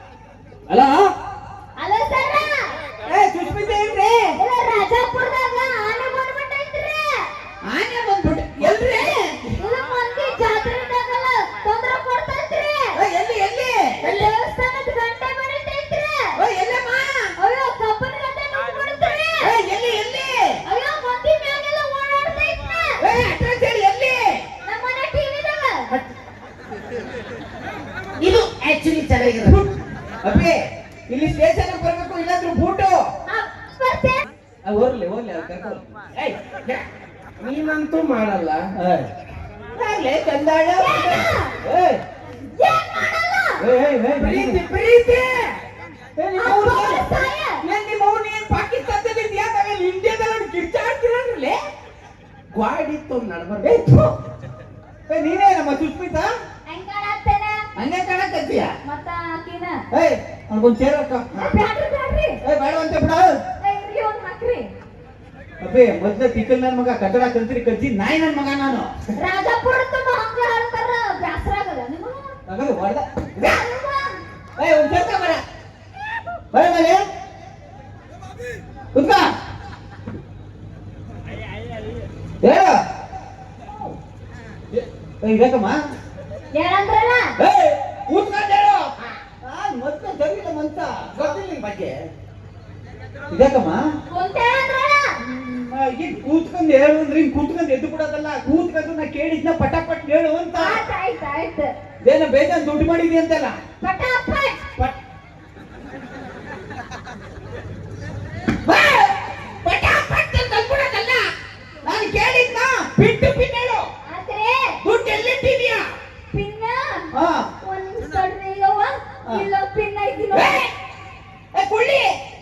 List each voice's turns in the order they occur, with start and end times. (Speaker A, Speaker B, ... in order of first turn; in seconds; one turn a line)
Speaker A: 0.7-1.1
Speaker B: 1.8-2.6
Speaker A: 3.0-4.3
Speaker B: 4.3-7.3
Speaker A: 7.6-9.5
Speaker B: 9.6-13.0
Speaker A: 12.9-14.2
Speaker B: 14.0-16.4
Speaker A: 16.4-17.3
Speaker B: 17.4-19.5
Speaker A: 19.4-20.6
Speaker B: 20.6-23.0
Speaker A: 23.0-24.4
Speaker B: 24.6-25.9
Speaker C: 28.2-29.7
Speaker A: 30.2-33.0
Speaker B: 33.3-34.3
Speaker A: 34.6-36.8
Speaker C: 37.4-38.7
Speaker A: 38.8-39.1
Speaker A: 39.7-42.0
Speaker B: 40.8-41.5
Speaker B: 42.5-43.6
Speaker A: 43.6-44.6
Speaker C: 44.1-45.6
Speaker A: 46.2-51.6
Speaker B: 46.4-47.6
Speaker C: 52.5-53.8
Speaker A: 53.6-54.2
Speaker A: 55.1-56.3
Speaker B: 56.6-57.6
Speaker A: 57.8-58.7
Speaker B: 58.8-59.8
Speaker A: 59.9-61.3
Speaker B: 61.3-62.4
Speaker A: 62.4-63.4
Speaker B: 63.6-64.7
Speaker A: 65.6-68.9
Speaker B: 69.2-72.3
Speaker A: 72.5-73.6
Speaker B: 73.4-74.2
Speaker A: 74.6-75.4
Speaker A: 76.5-77.0
Speaker A: 78.9-79.3
Speaker A: 82.4-82.7
Speaker A: 85.2-85.8
Speaker B: 86.5-87.4
Speaker A: 87.4-88.9
Speaker A: 89.4-91.9
Speaker C: 91.2-91.6
Speaker A: 93.3-93.8
Speaker B: 94.1-95.2
Speaker A: 95.3-100.8
Speaker B: 100.5-101.7
Speaker A: 102.0-103.6
Speaker B: 103.8-104.6
Speaker A: 108.6-111.2
Speaker A: 111.8-113.8
Speaker B: 114.0-114.8
Speaker A: 114.8-115.8
Speaker B: 116.3-120.6
Speaker A: 117.1-117.5
Speaker A: 120.3-120.7
Speaker A: 121.5-122.1